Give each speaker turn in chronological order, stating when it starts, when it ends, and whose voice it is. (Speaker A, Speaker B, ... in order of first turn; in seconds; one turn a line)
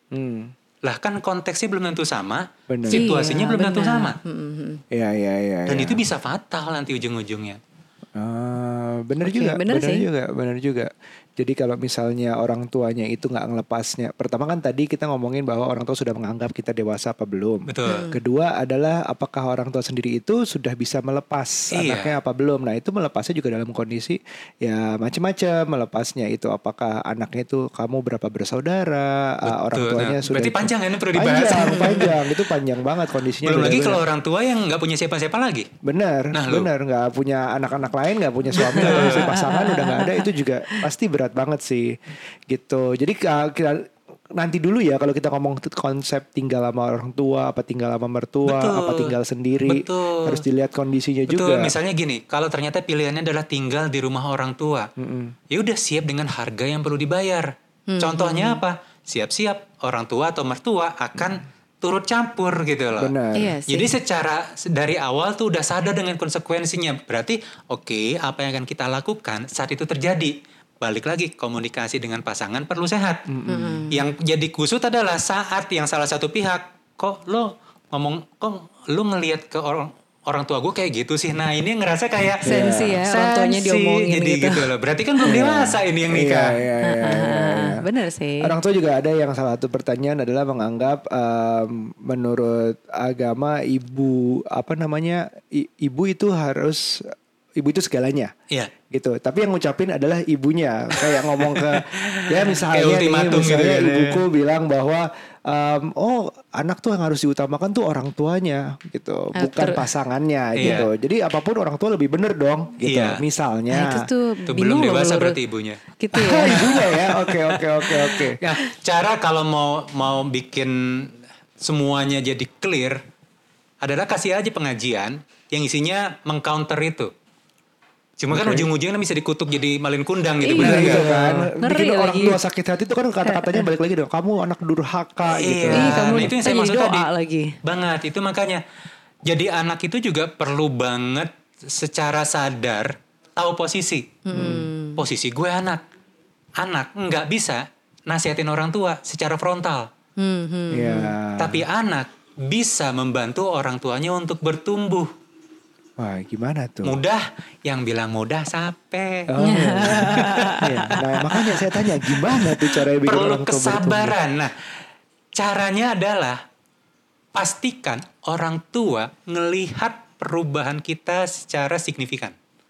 Speaker A: 0.1-0.5
Speaker B: 0.8-4.2
Speaker A: 2.7-3.0
Speaker C: 2.9-4.8
Speaker A: 4.9-6.0
Speaker B: 5.7-7.6
Speaker A: 8.2-34.0
Speaker C: 9.2-10.1
Speaker B: 17.7-18.1
Speaker C: 17.9-18.2
Speaker B: 21.7-22.1
Speaker B: 29.4-32.2
Speaker C: 31.6-32.1
Speaker B: 33.4-35.7
Speaker A: 35.8-42.0
Speaker B: 36.3-36.7
Speaker B: 38.5-39.3
Speaker C: 38.6-40.8
Speaker A: 42.5-51.7
Speaker B: 48.4-50.4
Speaker B: 51.3-54.9
Speaker A: 55.0-55.3
Speaker B: 55.5-63.1
Speaker C: 57.9-58.6
Speaker A: 63.0-63.6
Speaker C: 63.4-63.9
Speaker B: 63.7-73.2
Speaker A: 73.3-73.9
Speaker C: 73.5-74.0
Speaker B: 73.9-86.6
Speaker C: 82.4-85.4
Speaker A: 82.4-83.0
Speaker A: 85.2-87.8
Speaker C: 86.8-88.5
Speaker A: 88.4-98.3
Speaker A: 98.9-114.1
Speaker B: 101.3-104.2
Speaker C: 109.3-109.9
Speaker B: 110.6-110.9
Speaker B: 112.8-113.2
Speaker C: 113.7-115.4
Speaker B: 114.5-115.8
Speaker C: 116.0-117.0
Speaker A: 116.1-118.4
Speaker B: 116.5-117.5
Speaker B: 118.4-123.0
Speaker B: 123.8-127.1
Speaker B: 128.2-131.4
Speaker A: 128.3-128.7
Speaker C: 130.4-132.4
Speaker A: 130.6-136.3
Speaker C: 133.2-133.7
Speaker B: 135.3-137.1
Speaker C: 135.7-137.6
Speaker B: 137.6-138.6
Speaker B: 139.2-144.2
Speaker C: 144.2-145.0
Speaker A: 144.3-144.7
Speaker B: 145.0-145.8
Speaker B: 146.6-149.9
Speaker C: 150.2-151.2
Speaker A: 150.7-151.6
Speaker B: 151.4-155.1
Speaker A: 156.0-157.0
Speaker B: 156.8-160.6
Speaker A: 159.3-164.2
Speaker C: 159.4-161.6
Speaker B: 162.7-164.6
Speaker B: 165.3-166.4
Speaker B: 167.3-172.3